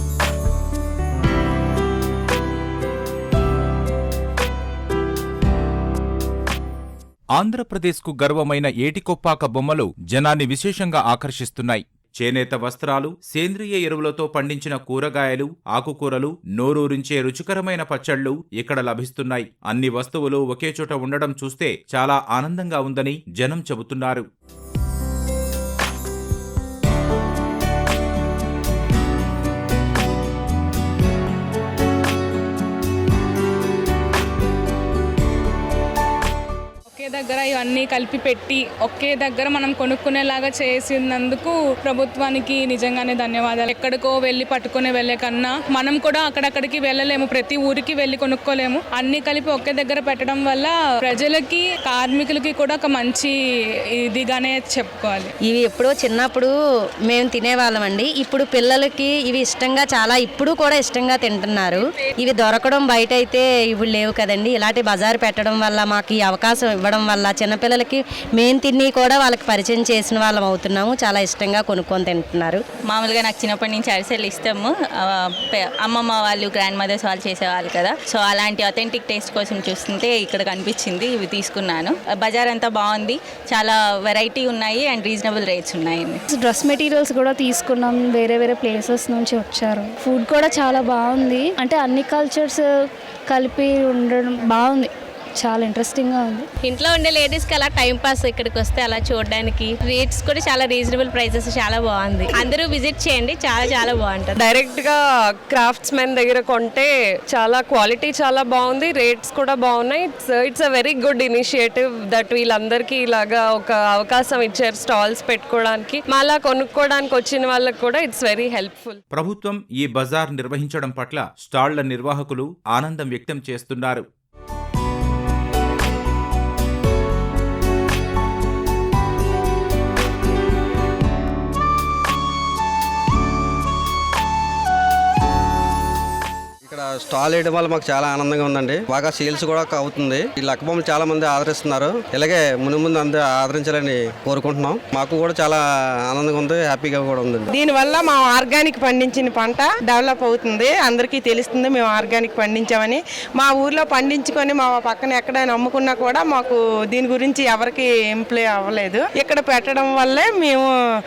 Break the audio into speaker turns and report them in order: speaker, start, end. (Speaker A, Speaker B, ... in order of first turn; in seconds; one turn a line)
Speaker A: 7.3-24.2
Speaker B: 36.9-53.3
Speaker B: 54.0-55.3
Speaker C: 55.5-72.6
Speaker D: 72.9-74.7
Speaker D: 75.5-86.2
Speaker E: 86.3-92.7
Speaker E: 93.3-96.5
Speaker F: 96.6-104.5
Speaker G: 104.5-119.0
Speaker A: 119.1-124.0
Speaker H: 136.6-147.5
Speaker I: 147.5-160.7